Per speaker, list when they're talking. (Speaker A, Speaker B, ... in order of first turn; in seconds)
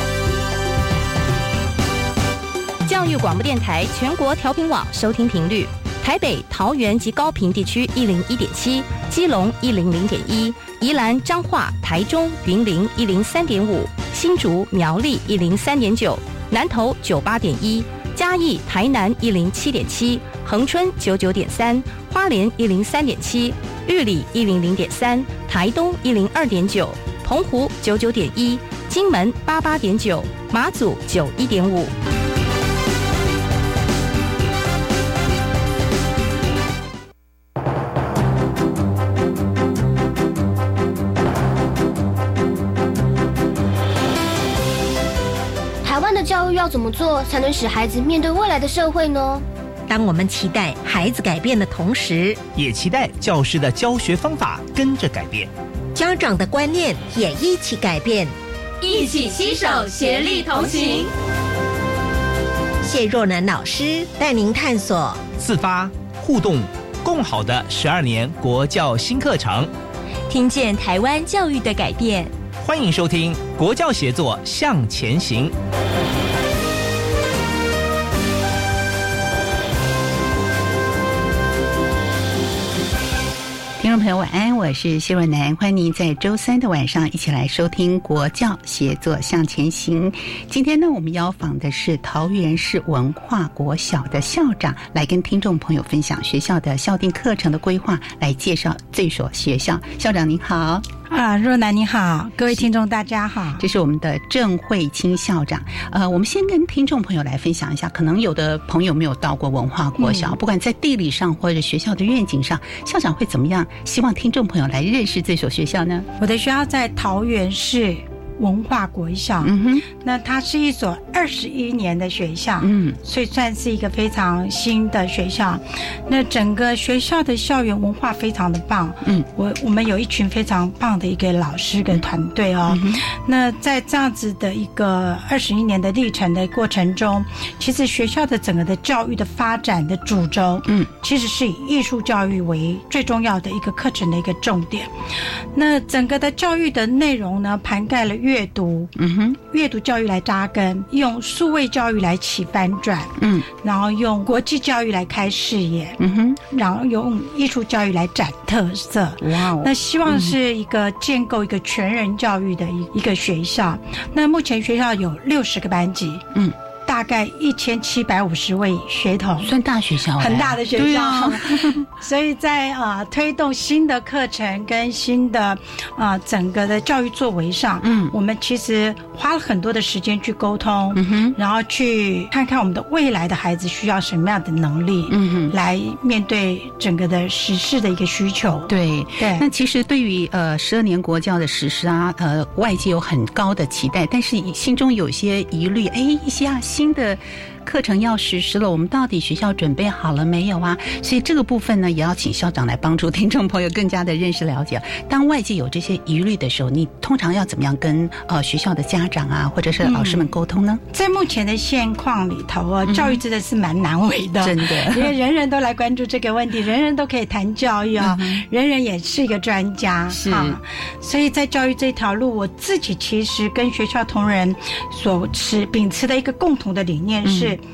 Speaker A: 2.9-31.9
Speaker B: 45.8-49.4
Speaker C: 49.9-52.4, 55.9-58.3, 62.8-65.2
Speaker D: 52.5-55.5, 65.3-69.7, 72.6-75.5
Speaker E: 58.8-61.1, 70.3-72.3
Speaker F: 83.8-100.8, 103.6-116.1, 119.4-119.8, 122.6-123.0, 132.7-133.0, 148.9-149.4, 153.2-153.4, 156.0-156.4, 159.2-160.3, 169.4-171.8, 177.8-178.1, 180.9-181.3, 185.1-185.5, 188.7-210.8, 212.8-213.2, 214.4-215.1, 218.0-218.4, 220.1-220.6, 227.2-227.6
Speaker G: 101.1-103.6, 110.0-110.3, 116.2-144.9, 145.5-166.2, 166.8-169.5, 170.2-189.4, 209.8-210.3, 210.9-227.6